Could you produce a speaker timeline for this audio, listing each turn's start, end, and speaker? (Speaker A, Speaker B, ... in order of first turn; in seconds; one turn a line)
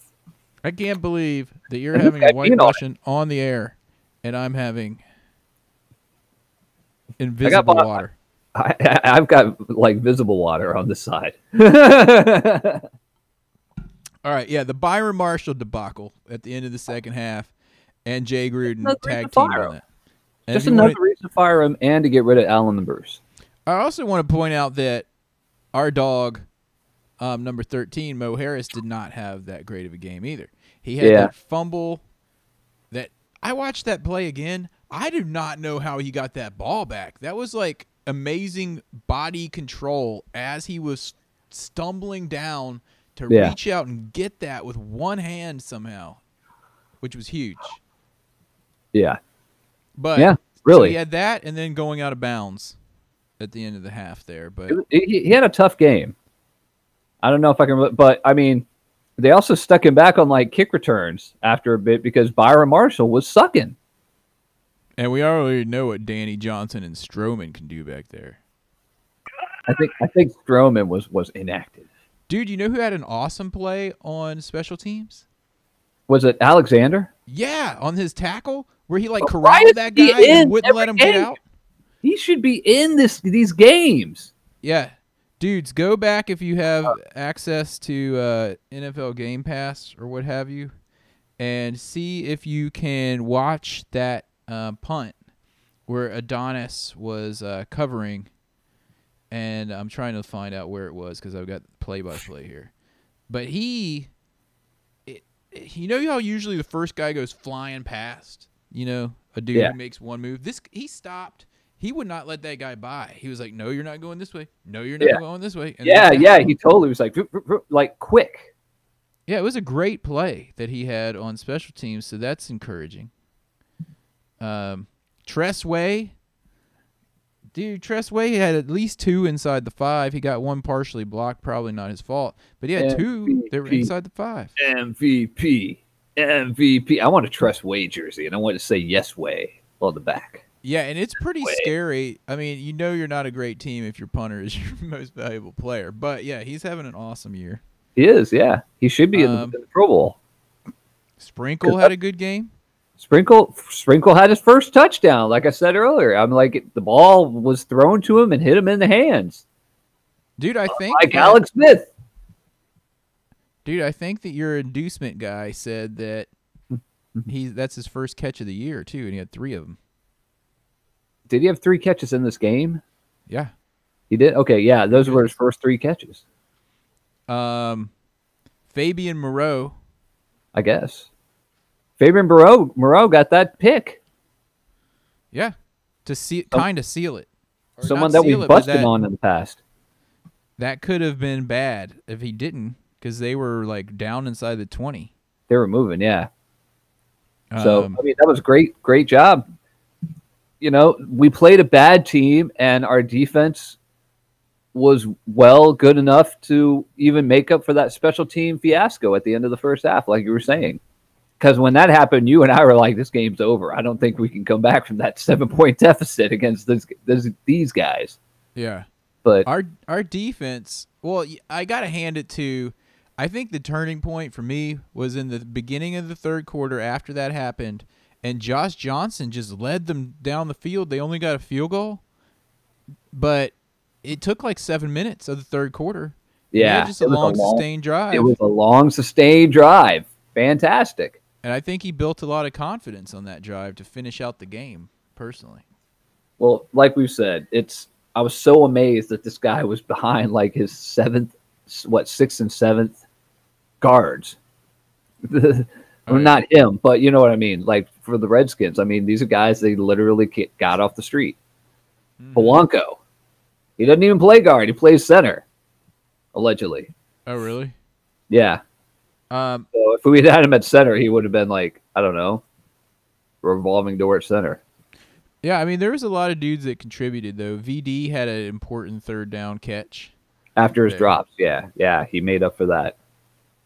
Speaker A: 0.6-5.0
Speaker B: 1.9-2.8
Speaker A: 7.2-8.1
Speaker B: 7.4-8.0
Speaker B: 8.5-12.8
Speaker A: 14.2-17.5
Speaker A: 18.0-19.8
Speaker B: 18.7-19.7
Speaker A: 20.5-21.0
Speaker B: 20.5-23.2
Speaker A: 23.6-25.1
Speaker A: 25.7-26.4
Speaker A: 27.2-32.0
Speaker B: 31.0-31.3
Speaker A: 32.9-46.2
Speaker B: 43.3-43.5
Speaker A: 47.0-47.8
Speaker A: 50.0-52.8
Speaker B: 50.1-51.0
Speaker A: 53.4-54.8
Speaker B: 54.7-56.1
Speaker B: 57.2-58.6
Speaker B: 59.2-63.8
Speaker A: 65.0-68.4
Speaker B: 69.7-71.9
Speaker A: 72.3-75.2
Speaker B: 76.1-77.1
Speaker A: 77.3-81.4
Speaker B: 79.2-81.3
Speaker B: 82.0-84.3
Speaker A: 84.6-90.7
Speaker A: 91.4-95.2
Speaker A: 95.9-98.3
Speaker A: 99.3-102.7
Speaker A: 103.3-104.1
Speaker A: 105.1-116.5
Speaker B: 115.8-118.5
Speaker A: 119.3-123.1
Speaker A: 124.4-126.1
Speaker A: 127.5-134.5
Speaker B: 132.8-133.9
Speaker B: 134.6-140.4
Speaker A: 140.6-147.6
Speaker B: 141.4-141.7
Speaker B: 147.9-150.2
Speaker A: 149.1-149.6
Speaker A: 151.2-152.5
Speaker B: 153.0-159.4
Speaker A: 160.4-161.4
Speaker B: 160.7-161.9
Speaker A: 163.6-166.3
Speaker A: 167.2-169.8
Speaker B: 171.3-172.8
Speaker B: 174.1-176.2
Speaker A: 174.9-175.3
Speaker A: 177.3-177.9
Speaker A: 178.7-179.7
Speaker B: 180.5-181.1
Speaker B: 182.0-184.0
Speaker A: 185.3-187.3
Speaker A: 187.8-188.9
Speaker B: 187.8-189.6
Speaker A: 190.6-195.1
Speaker B: 195.5-196.3
Speaker A: 197.5-198.0
Speaker B: 197.6-199.4
Speaker B: 200.6-203.8
Speaker B: 204.7-210.8
Speaker B: 211.4-218.2
Speaker A: 218.5-218.8
Speaker A: 219.4-232.0
Speaker A: 233.1-238.3
Speaker B: 236.5-241.2
Speaker A: 241.4-245.6
Speaker B: 246.4-253.0
Speaker B: 253.8-254.4
Speaker B: 255.2-261.4
Speaker A: 256.1-256.4
Speaker A: 262.2-262.6
Speaker B: 262.3-263.0
Speaker B: 263.8-265.4
Speaker B: 266.3-266.9
Speaker A: 267.2-267.7
Speaker B: 268.3-268.6
Speaker A: 269.3-269.7
Speaker B: 269.7-272.4
Speaker B: 273.4-274.6
Speaker A: 275.4-280.1
Speaker B: 280.6-282.9
Speaker A: 280.9-281.1